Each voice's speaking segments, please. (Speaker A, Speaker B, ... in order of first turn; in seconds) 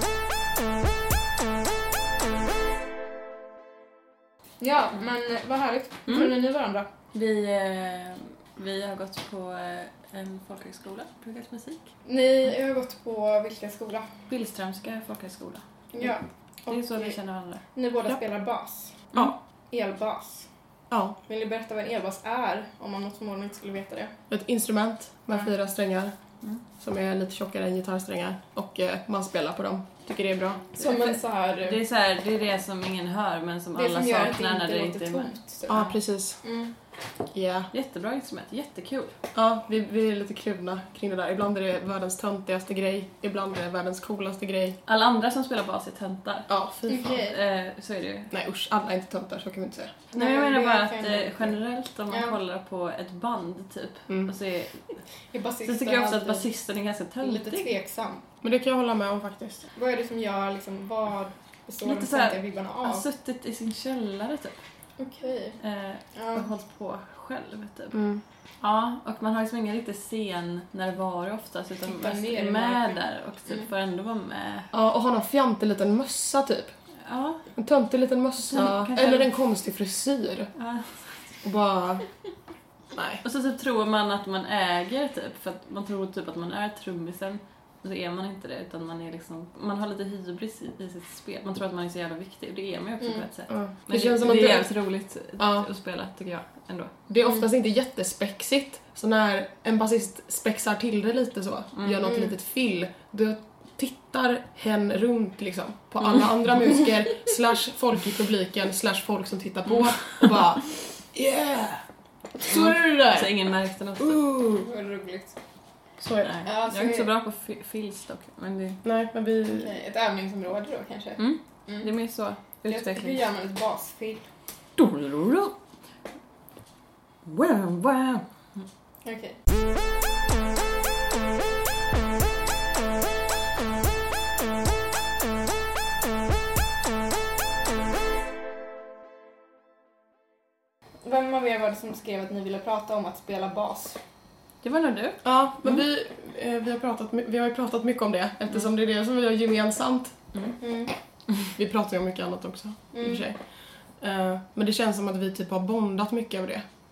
Speaker A: 4.6-6.9, 12.1-14.1, 15.9-17.2, 17.7-19.1, 19.7-20.5, 21.3-24.1, 30.8-31.8, 33.8-36.7, 46.9-47.4, 50.1-51.5, 52.1-52.4, 55.3-56.5, 57.2-58.2, 59.7-63.0, 65.0-65.6, 66.1-66.5, 71.9-73.0, 114.6-115.4, 116.4-117.1, 119.5-121.9, 122.7-124.3, 129.0-129.4, 141.0-144.0, 150.6-150.9, 152.9-153.2
Speaker B: 7.1-11.9, 14.3-16.1, 16.7-17.6, 30.8-35.4, 37.7-39.1, 44.9-46.5, 47.0-48.3, 50.1-55.0, 55.6-57.7, 61.8-64.6, 65.6-68.0, 68.6-74.7, 77.0-77.4, 78.5-79.3, 80.5-81.0, 83.2-96.9, 101.8-102.2, 109.7-110.4, 112.4-114.2, 116.2-118.8, 121.2-123.2, 124.8-125.5, 127.2-128.6, 144.6-145.2
Speaker C: 20.9-21.1, 24.3-26.1, 26.8-30.7, 35.7-36.4, 37.3-37.7, 39.3-44.8, 46.5-47.2, 48.3-50.0, 58.4-59.6, 67.9-68.2, 74.7-76.7, 77.5-80.5, 81.4-82.0, 82.9-83.2, 93.5-94.7, 95.4-95.7, 97.1-111.8, 112.4-113.4, 114.0-114.7, 116.0-116.3, 118.8-119.7, 145.2-150.1, 151.6-153.4, 154.0-156.6